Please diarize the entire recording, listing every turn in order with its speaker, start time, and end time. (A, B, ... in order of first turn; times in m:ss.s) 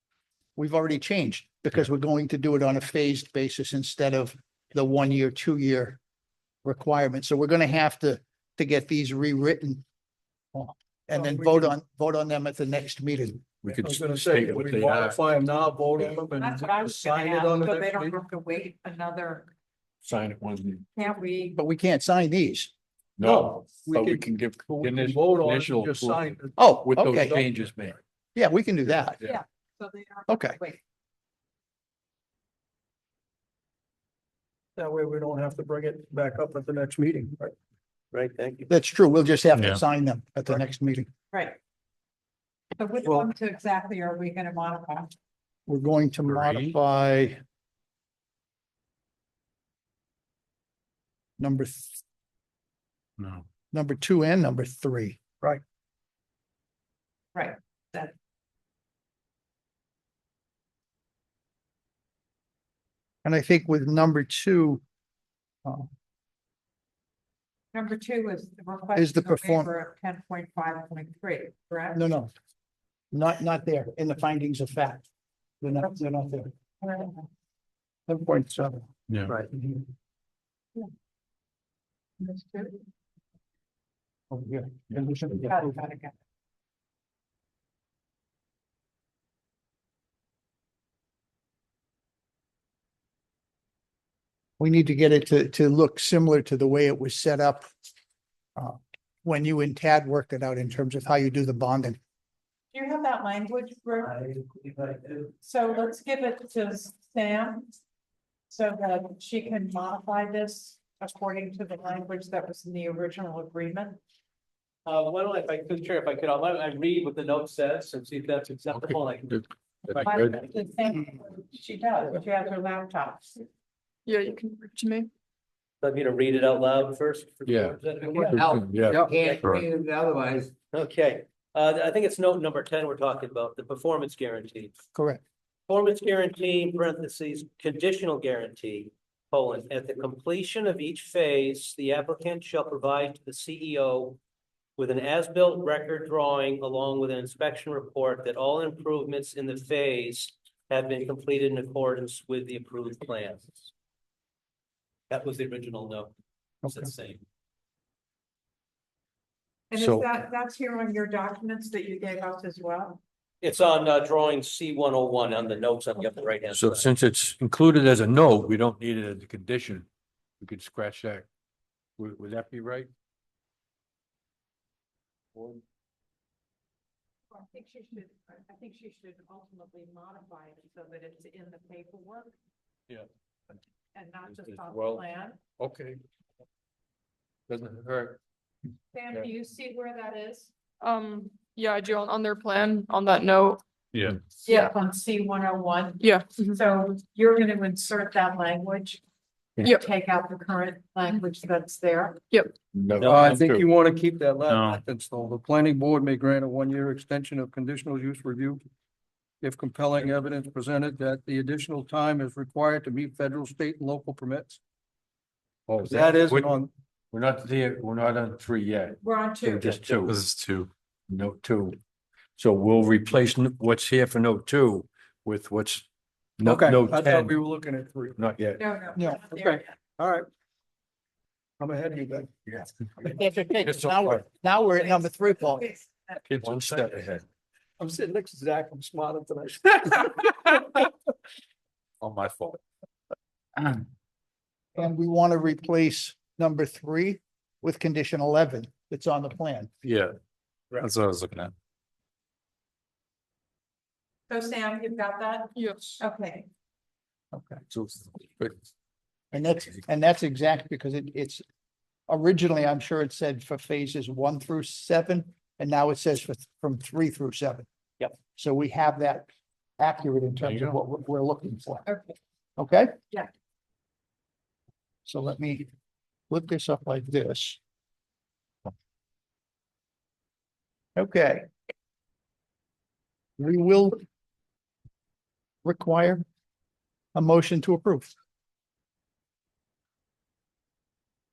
0:00.6-0:06.0 A
0:06.6-0:09.8 A
0:10.5-0:13.5 A
0:11.1-0:11.7 B
0:13.6-0:15.2 C
0:13.7-0:18.2 B
0:16.4-0:19.5 D
0:20.0-0:20.8 C
0:21.0-0:21.6 D
0:21.5-0:22.7 A
0:23.2-0:28.0 C
0:23.2-0:27.6 B
0:26.6-0:27.4 A
0:28.4-0:29.2 A
0:29.2-0:30.8 D
0:30.3-0:30.6 A
0:34.8-0:37.5 B
0:38.1-0:38.7 E
0:38.7-0:41.1 A
0:41.3-0:41.6 D
0:42.8-0:45.1 D
0:45.7-0:47.4 A
0:46.3-0:46.8 F
0:51.4-0:52.0 A
0:53.2-0:53.4 F
0:53.7-0:55.6 A
0:57.3-0:58.1 D
1:03.2-1:04.8 A
1:07.7-1:12.0 D
1:09.0-1:09.7 A
1:11.9-1:12.3 A
1:13.1-1:15.1 A
1:15.6-1:16.5 A
1:16.8-1:17.2 D
1:18.1-1:19.8 A
1:22.2-1:22.8 D
1:24.3-1:25.7 A
1:25.3-1:26.1 D
1:34.6-1:37.7 A
1:38.6-1:42.0 A
1:42.7-1:44.1 D
1:44.0-1:45.3 E
1:45.4-1:47.8 D
1:48.5-1:54.0 D
1:54.9-2:00.3 E
1:58.8-2:00.4 C
2:00.0-2:03.3 D
2:04.1-2:05.1 G
2:05.8-2:08.4 E
2:07.5-2:09.1 C
2:08.0-2:10.5 H
2:08.9-2:09.1 B
2:09.1-2:09.5 E
2:10.7-2:14.7 E
2:15.0-2:15.2 A
2:15.7-2:24.2 E
2:24.8-2:33.7 E
2:35.1-2:36.1 E
2:36.6-2:37.2 E
2:39.7-2:43.0 D
2:39.8-2:40.1 C
2:43.4-2:46.9 E
2:46.5-2:49.9 C
2:50.4-2:51.3 C
2:52.0-2:52.9 C
2:55.3-2:55.6 C
2:57.3-3:02.3 D
3:03.9-3:05.4 D
3:04.3-3:05.1 C
3:05.6-3:06.0 C
3:07.5-3:08.2 C
3:08.9-3:10.5 D
3:10.8-3:13.6 G
3:13.9-3:14.2 F
3:14.4-3:19.0 D
3:16.0-3:16.5 G
3:19.6-3:22.2 D
3:22.7-3:23.7 C
3:23.0-3:23.4 E
3:23.0-3:28.6 B
3:24.5-3:24.8 F
3:29.4-3:34.6 B
3:35.7-3:36.6 C
3:35.8-3:36.7 B
3:37.1-3:40.3 C
3:39.0-3:39.8 D
3:39.8-3:40.7 F
3:41.1-3:41.8 C
3:42.4-3:45.9 C
3:46.4-3:47.4 C
3:46.4-3:48.3 B
3:48.2-3:48.6 C
3:48.6-3:49.7 D
3:49.0-3:49.2 A
3:49.3-3:50.3 B
3:51.6-3:52.3 B
3:53.0-3:55.7 A
3:53.6-3:54.2 C
3:55.6-3:56.2 D
3:56.2-3:57.2 C
3:57.8-4:00.9 B
4:02.0-4:02.6 C
4:04.8-4:09.7 A
4:10.8-4:11.5 F
4:14.3-4:16.5 D
4:15.6-4:16.0 G
4:17.3-4:17.6 A
4:17.7-4:18.6 C
4:19.3-4:21.4 A
4:22.1-4:27.7 A
4:28.2-4:31.9 A
4:31.9-4:32.2 D
4:32.6-4:33.0 A
4:35.1-4:35.7 A
4:36.3-4:37.6 A
4:41.0-4:41.5 A
4:43.4-4:44.0 A
4:45.6-4:46.2 A
4:47.2-4:48.1 A